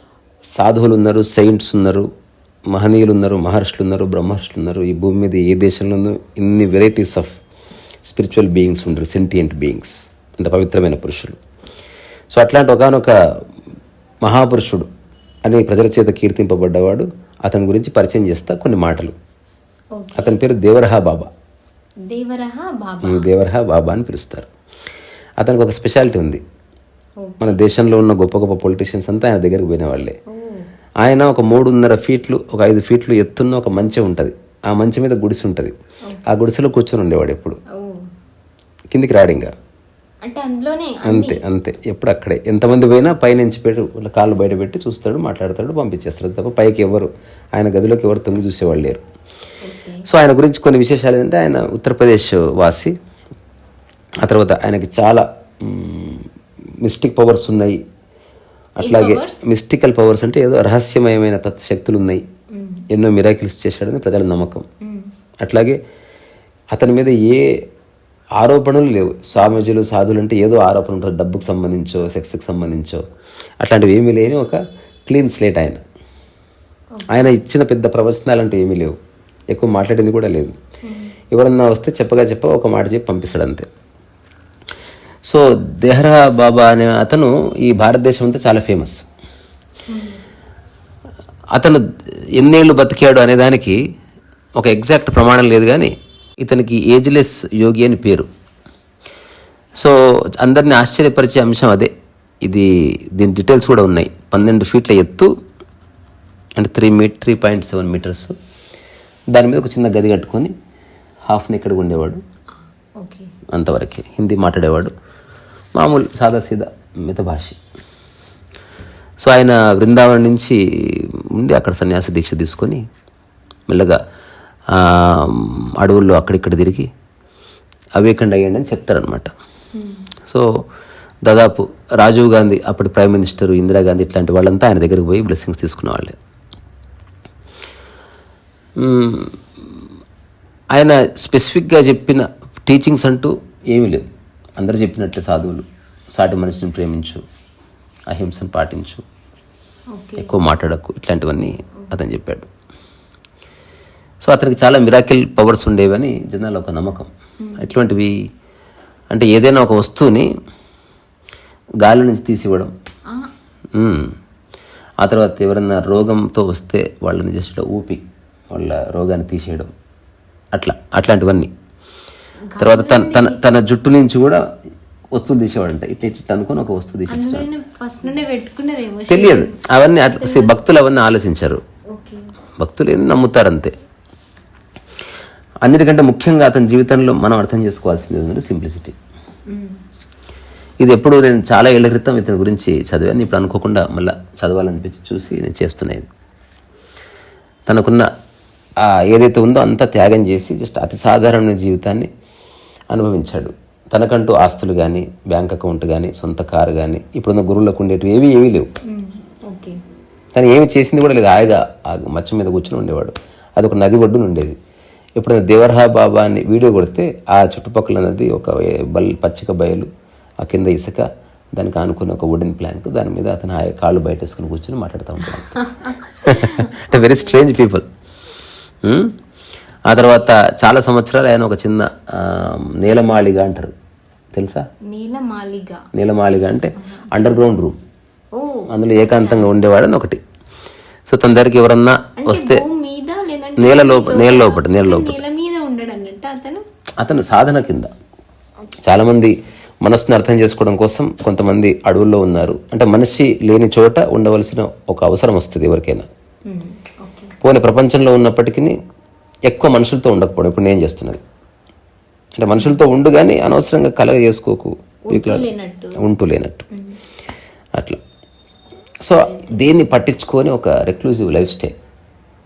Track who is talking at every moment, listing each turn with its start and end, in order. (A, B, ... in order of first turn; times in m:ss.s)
0:00.6-0:02.0 A
0:02.7-0:07.3 A
0:08.0-0:11.4 A
0:12.3-0:13.1 A
0:14.2-0:14.9 A
0:15.4-0:19.1 A
0:20.0-0:20.4 B
0:20.2-0:21.3 A
0:22.1-0:23.3 B
0:23.0-0:24.5 A
0:25.4-0:26.4 A
0:27.2-0:27.6 B
0:27.4-0:30.2 A
0:30.3-0:30.7 B
0:31.0-0:35.7 A
0:36.3-0:37.6 A
0:37.7-0:38.1 B
0:38.9-0:39.5 A
0:40.2-0:41.4 B
0:41.0-0:49.0 A
0:49.6-0:50.0 B
0:50.0-0:52.9 A
0:54.2-0:56.3 A
0:56.8-0:57.8 A
0:58.8-1:02.2 A
0:58.8-0:59.4 B
1:02.5-1:02.8 B
1:02.9-1:04.6 A
1:04.8-1:05.1 B
1:05.4-1:05.8 A
1:06.7-1:07.5 A
1:08.4-1:13.0 A
1:13.6-1:15.8 A
1:16.9-1:17.3 B
1:17.1-1:18.9 A
1:19.5-1:20.5 A
1:20.8-1:21.1 B
1:21.3-1:23.6 A
1:25.2-1:29.0 A
1:29.9-1:30.2 B
1:31.5-1:31.8 A
1:32.4-1:33.8 A
1:34.6-1:38.3 A
1:39.8-1:41.9 A
1:42.4-1:45.3 A
1:46.6-1:48.3 A
1:49.3-1:50.5 A
1:51.3-1:52.2 A
1:53.0-1:53.3 B
1:53.5-1:54.9 A
1:55.7-1:57.6 A
1:59.2-2:02.8 A
2:03.7-2:04.0 A
2:04.7-2:06.9 A
2:08.0-2:09.3 A
2:09.7-2:10.1 B
2:11.2-2:16.1 A
2:18.8-2:19.4 A
2:20.7-2:24.0 A
2:24.6-2:27.2 A
2:28.1-2:29.0 A
2:29.9-2:30.4 B
2:30.2-2:32.5 A
2:34.2-2:38.2 A
2:37.4-2:37.7 B
2:39.1-2:40.3 A
2:41.8-2:42.7 A
2:43.8-2:44.1 A
2:45.0-2:49.7 A
2:50.5-2:51.5 A
2:52.5-2:53.5 B
2:52.6-2:54.4 A
2:55.1-2:57.4 A
2:57.1-2:59.6 B
2:59.1-3:01.6 A
3:00.2-3:00.6 B
3:01.9-3:02.3 B
3:02.6-3:03.7 A
3:05.6-3:09.0 A
3:09.5-3:09.8 B
3:10.8-3:16.1 A
3:17.6-3:18.1 A
3:18.8-3:22.1 A
3:22.9-3:28.7 A
3:28.9-3:29.8 B
3:30.3-3:34.6 A
3:35.2-3:39.9 A
3:40.4-3:45.5 A
3:45.5-3:47.4 B
3:46.2-3:47.8 A
3:48.8-3:49.1 A
3:49.9-3:53.7 A
3:50.0-3:50.3 B
3:54.3-3:54.6 A
3:54.9-3:55.8 B
3:55.9-3:57.8 A
3:56.8-3:57.5 B
3:58.3-3:59.5 B
3:58.7-4:00.2 A
4:01.1-4:02.6 A
4:02.2-4:06.6 B
4:03.6-4:05.2 A
4:07.0-4:07.9 A
4:08.8-4:16.1 A
4:16.4-4:17.3 B
4:17.4-4:18.8 A
4:19.5-4:21.2 A
4:22.4-4:25.4 A
4:22.5-4:22.8 B
4:25.1-4:26.0 B
4:26.0-4:26.6 A
4:29.0-4:31.7 A
4:29.2-4:29.7 B